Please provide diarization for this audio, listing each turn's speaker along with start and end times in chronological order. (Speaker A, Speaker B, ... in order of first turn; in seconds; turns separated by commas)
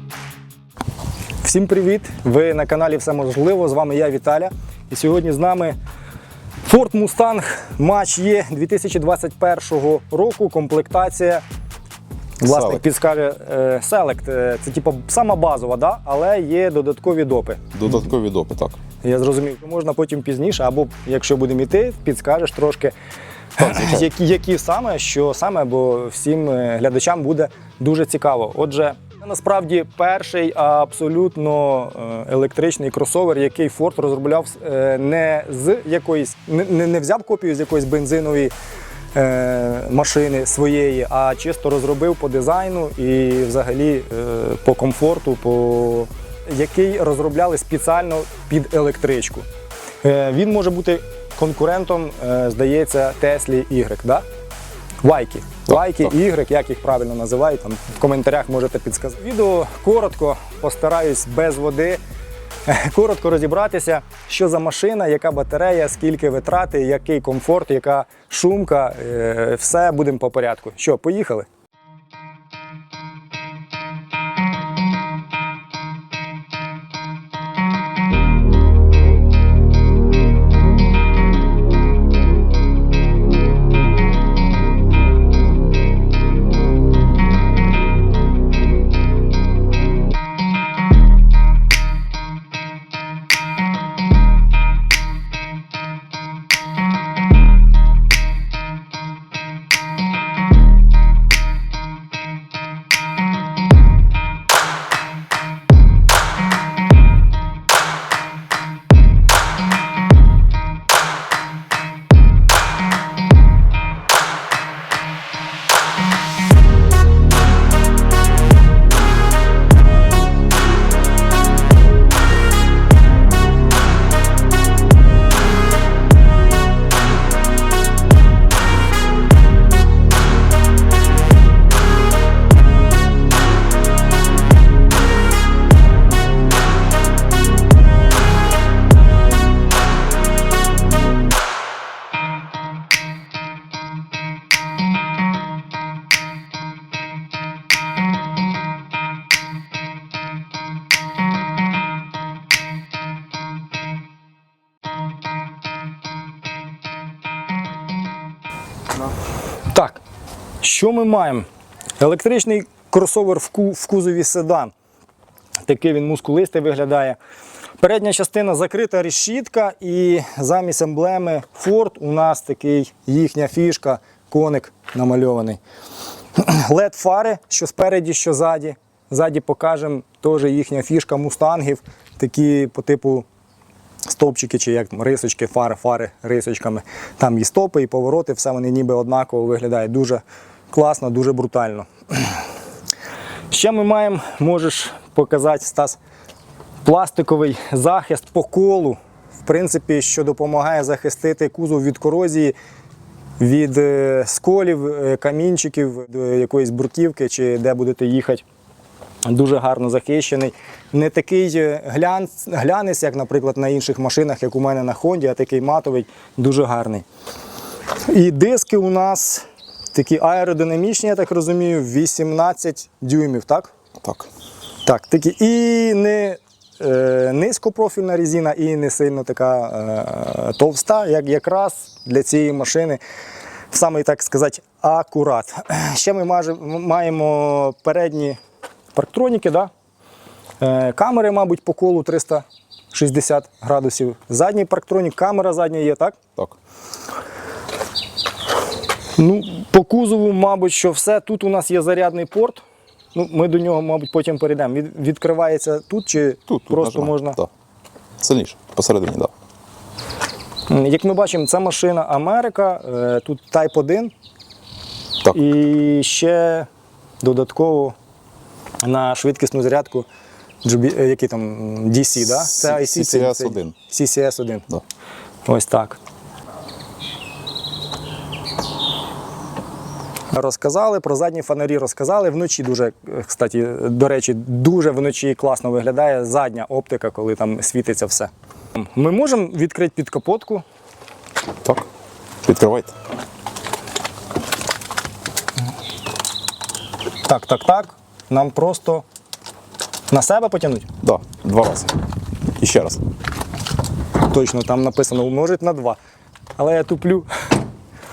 Speaker A: 1.4-5.8, Speaker A: 6.6-11.4, Speaker A: 12.4-17.7, Speaker B: 12.5-12.8, Speaker B: 17.7-18.8, Speaker A: 19.0-22.9, Speaker A: 23.6-38.5, Speaker B: 23.6-24.1, Speaker A: 39.1-49.4, Speaker A: 50.0-54.2, Speaker A: 55.0-62.0, Speaker B: 55.7-56.1, Speaker A: 62.7-71.5, Speaker A: 159.7-160.0, Speaker A: 160.6-161.4, Speaker A: 162.0-164.7, Speaker A: 165.7-167.2, Speaker A: 167.8-175.6, Speaker A: 176.4-183.2, Speaker A: 184.1-192.4, Speaker A: 193.5-196.0, Speaker A: 196.8-202.5, Speaker A: 203.4-208.4, Speaker A: 209.3-217.0, Speaker A: 218.1-223.7, Speaker B: 224.0-224.3, Speaker A: 224.8-233.0, Speaker A: 233.7-238.4, Speaker A: 238.9-239.7, Speaker A: 240.6-246.2, Speaker A: 249.2-252.6, Speaker A: 253.1-257.4, Speaker B: 256.5-257.5, Speaker B: 258.2-259.3, Speaker A: 260.7-264.1, Speaker A: 265.3-266.7, Speaker A: 267.2-267.9, Speaker A: 268.8-270.1, Speaker A: 270.6-274.7, Speaker B: 272.2-273.7, Speaker A: 275.4-276.0, Speaker A: 280.3-290.6, Speaker B: 292.4-292.9, Speaker A: 297.2-299.0, Speaker A: 300.1-300.9, Speaker B: 301.0-301.9, Speaker B: 302.6-303.0, Speaker A: 304.3-306.0, Speaker A: 306.6-307.3